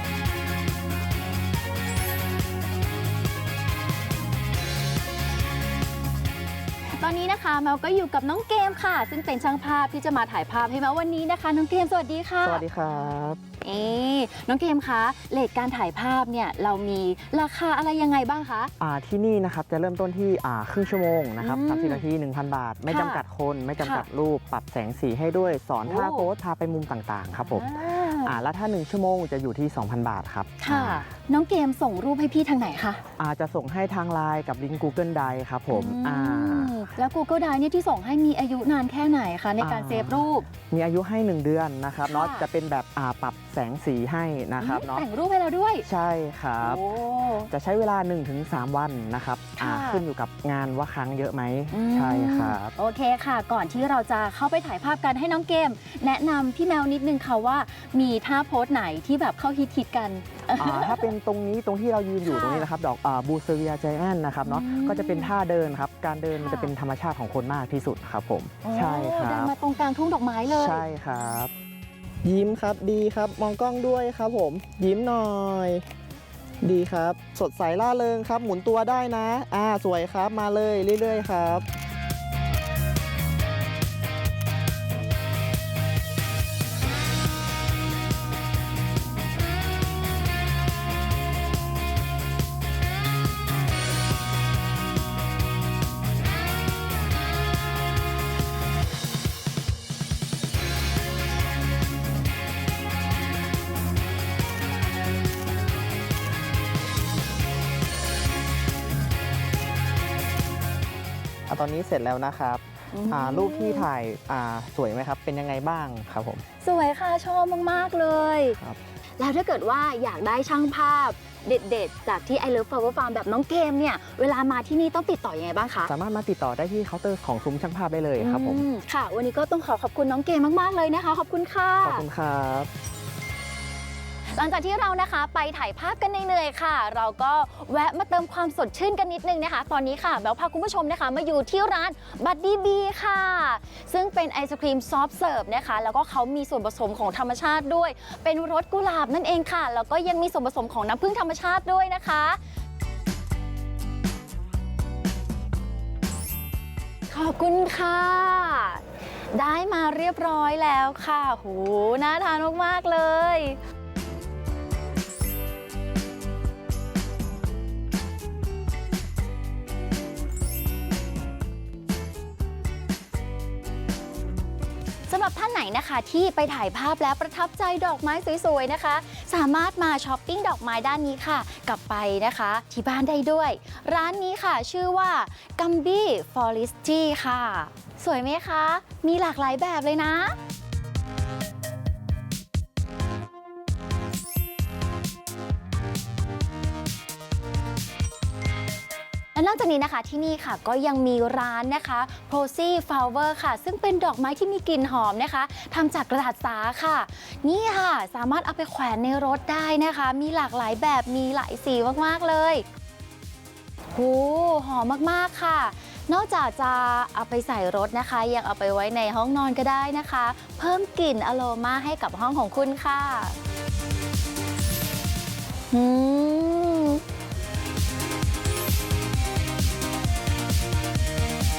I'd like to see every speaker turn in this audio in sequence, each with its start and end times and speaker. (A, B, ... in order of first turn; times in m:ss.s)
0:07.0-0:13.1 A
0:12.4-0:13.4 B
0:13.6-0:18.7 A
0:18.8-0:31.1 B
0:21.4-0:22.0 A
0:22.9-0:23.2 A
0:23.8-0:24.1 A
0:25.8-0:26.3 A
0:27.4-0:28.4 A
0:30.6-0:33.0 A
0:33.2-0:36.7 B
0:35.7-0:40.5 A
0:39.6-0:45.0 B
0:42.1-0:42.5 A
0:44.6-0:45.8 A
0:45.8-0:46.8 B
0:46.6-0:47.5 A
0:47.5-0:52.7 B
0:49.6-0:50.0 A
0:51.7-1:01.1 A
1:00.6-1:09.5 B
1:02.2-1:02.7 A
1:04.4-1:05.3 A
1:06.3-1:06.7 A
1:08.6-1:10.8 A
1:10.5-1:11.5 B
1:12.2-1:15.8 B
1:16.6-1:21.6 B
1:51.5-1:56.4 B
1:52.9-1:53.9 A
1:56.6-1:58.6 A
1:59.2-2:05.9 A
2:05.8-2:08.6 B
2:08.2-2:12.0 A
2:11.8-2:12.7 B
2:14.3-2:32.4 A
2:37.1-2:38.8 A
2:39.3-2:43.6 A
2:55.1-3:10.4 A
3:19.3-3:32.6 A
3:33.9-3:43.4 A
3:45.7-3:47.0 A